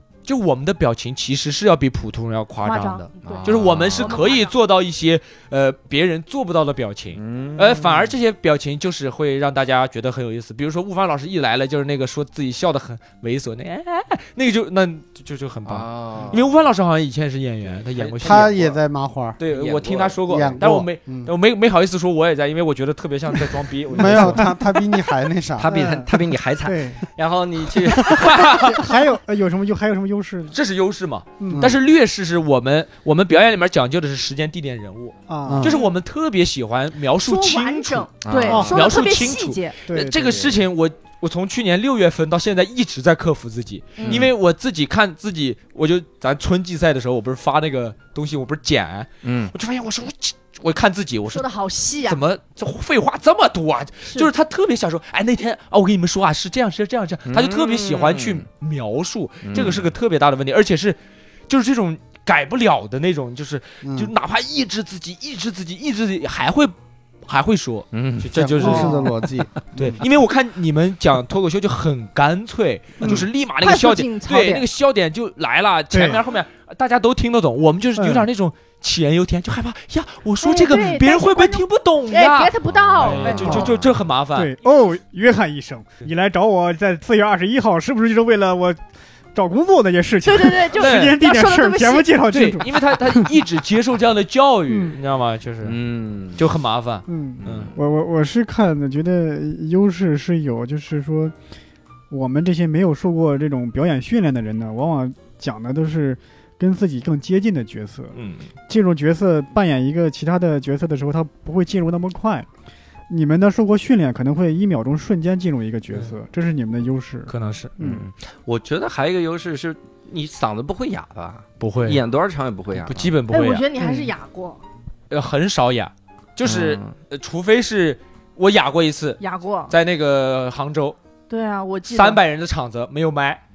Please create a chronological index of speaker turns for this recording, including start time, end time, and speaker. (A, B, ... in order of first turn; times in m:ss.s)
0:00.3-0:18.8 A
0:02.6-0:04.5 B
0:03.2-0:04.1 C
0:07.2-0:08.1 C
0:15.7-0:16.4 C
0:18.0-0:18.6 C
0:18.2-0:19.4 D
0:19.4-0:24.5 A
0:19.5-0:20.2 C
0:20.3-0:21.3 D
0:23.9-0:25.7 D
0:24.0-0:24.5 E
0:25.6-0:28.5 C
0:25.7-0:26.1 E
0:26.6-0:27.0 E
0:28.1-0:28.9 A
0:28.1-0:30.6 E
0:30.5-0:51.4 A
0:31.4-0:31.8 E
0:35.3-0:35.7 E
0:35.5-0:35.8 D
0:35.6-0:35.9 B
0:37.2-0:39.8 B
0:38.2-0:38.8 C
0:38.5-0:38.8 E
0:39.9-0:40.5 E
0:44.0-0:44.3 B
0:44.0-0:44.3 C
0:49.2-0:49.5 C
0:51.3-0:52.2 B
0:52.0-1:01.0 A
0:57.3-0:58.4 C
0:59.5-0:59.9 C
1:01.5-1:06.7 A
1:03.8-1:04.1 D
1:07.3-1:09.1 A
1:07.9-1:08.3 C
1:08.3-1:10.0 D
1:08.6-1:09.1 E
1:09.8-1:24.5 A
1:13.6-1:14.6 B
1:15.9-1:16.2 E
1:18.0-1:18.3 E
1:20.4-1:23.7 B
1:22.7-1:23.9 C
1:24.4-1:28.8 E
1:29.3-1:33.3 E
1:30.2-1:32.2 B
1:30.7-1:31.2 A
1:32.3-1:35.8 A
1:34.7-1:35.0 E
1:35.6-1:36.4 C
1:36.4-1:37.7 A
1:37.1-1:41.3 E
1:37.4-1:37.8 C
1:42.1-1:48.2 E
1:48.2-1:48.5 A
1:48.7-1:52.5 E
1:53.1-1:58.1 E
1:57.3-1:57.7 A
1:57.8-2:03.2 C
2:01.6-2:02.0 A
2:02.7-2:03.7 A
2:03.3-2:04.6 B
2:03.8-2:04.1 E
2:05.1-2:11.0 A
2:06.4-2:06.9 C
2:09.2-2:09.7 B
2:11.3-2:12.2 B
2:11.9-2:13.4 A